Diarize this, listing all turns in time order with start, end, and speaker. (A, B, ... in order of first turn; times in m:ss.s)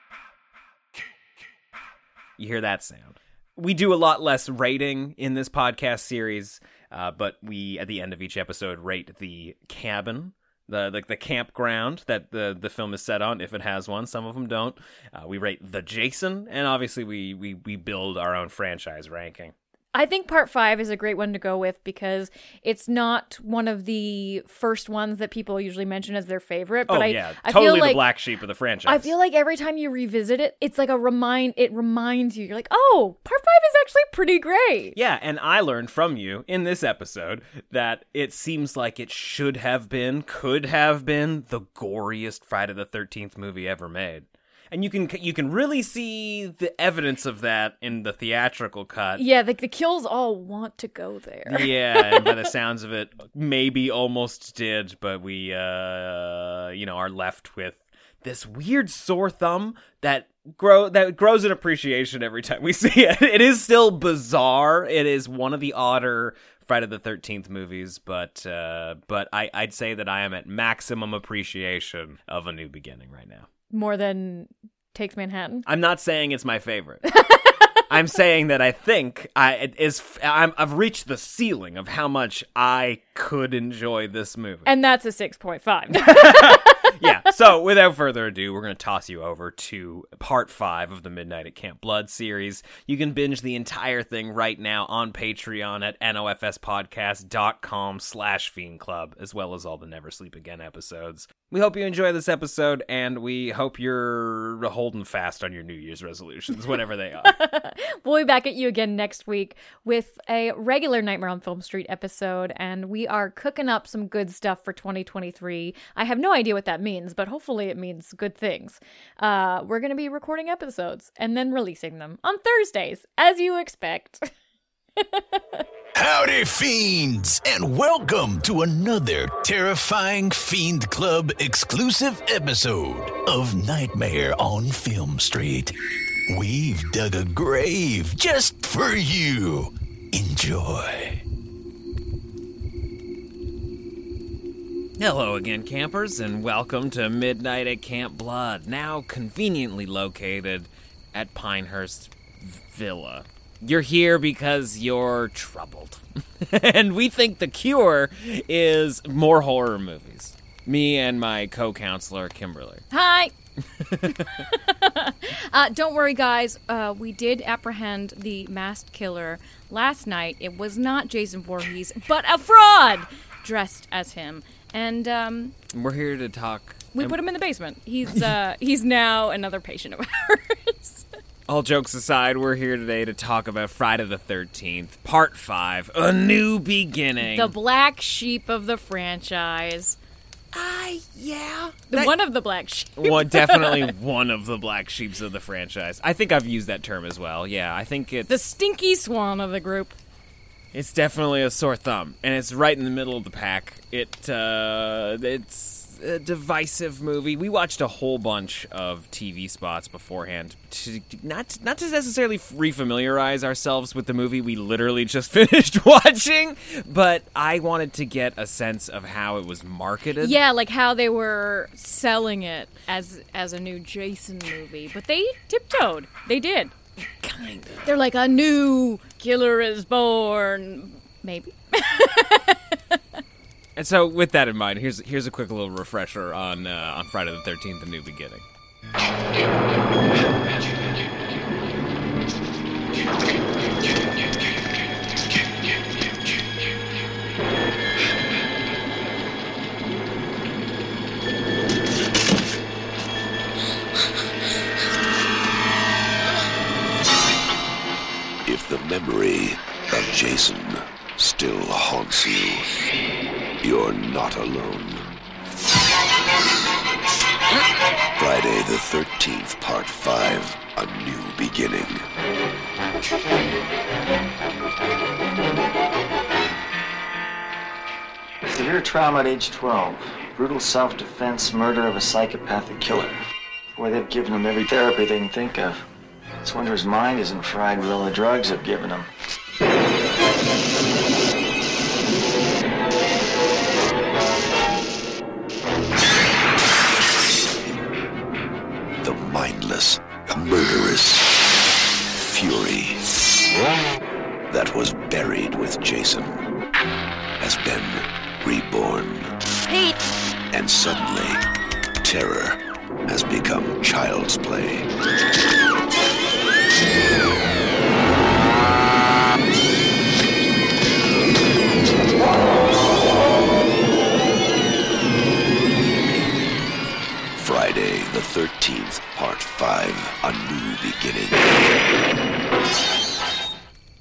0:02.4-0:19.5 A
0:19.9-0:28.0 B
0:26.9-0:29.1 A
0:28.9-0:35.0 B
0:35.0-0:49.2 A
0:49.2-0:52.5 B
0:51.5-1:13.5 A
1:13.7-1:15.7 B
1:15.7-1:17.1 A
1:17.2-1:17.5 B
1:17.9-1:24.7 A
1:24.6-1:27.1 B
1:26.0-1:47.4 A
1:47.2-2:04.3 B
2:05.0-2:05.6 B
2:05.9-2:15.7 C
2:16.3-2:21.2 C
2:25.0-2:42.8 A
2:42.9-2:43.3 B
2:43.8-2:44.1 A
2:44.0-2:55.6 B
2:55.7-2:57.2 A
2:56.9-3:01.1 B
3:01.5-3:07.5 A
3:07.2-3:10.0 B
3:10.5-3:12.1 A
3:11.9-3:13.9 B
3:13.0-3:18.3 A
3:18.3-3:20.0 B
3:20.7-3:40.4 A
3:40.2-3:46.7 B
3:47.2-3:47.9 A
3:47.8-3:53.0 B
3:53.8-3:58.4 A
4:18.4-4:22.7 D
4:23.6-4:25.1 D
4:28.2-4:32.0 D
4:38.5-4:43.2 E
4:43.8-4:45.8 E
4:46.4-4:49.1 E
4:59.0-5:01.4 D
5:02.1-5:03.1 D
5:04.5-5:06.4 D
5:07.4-5:09.9 D
5:10.5-5:11.4 D
5:12.0-5:14.9 D
5:27.4-5:31.4 D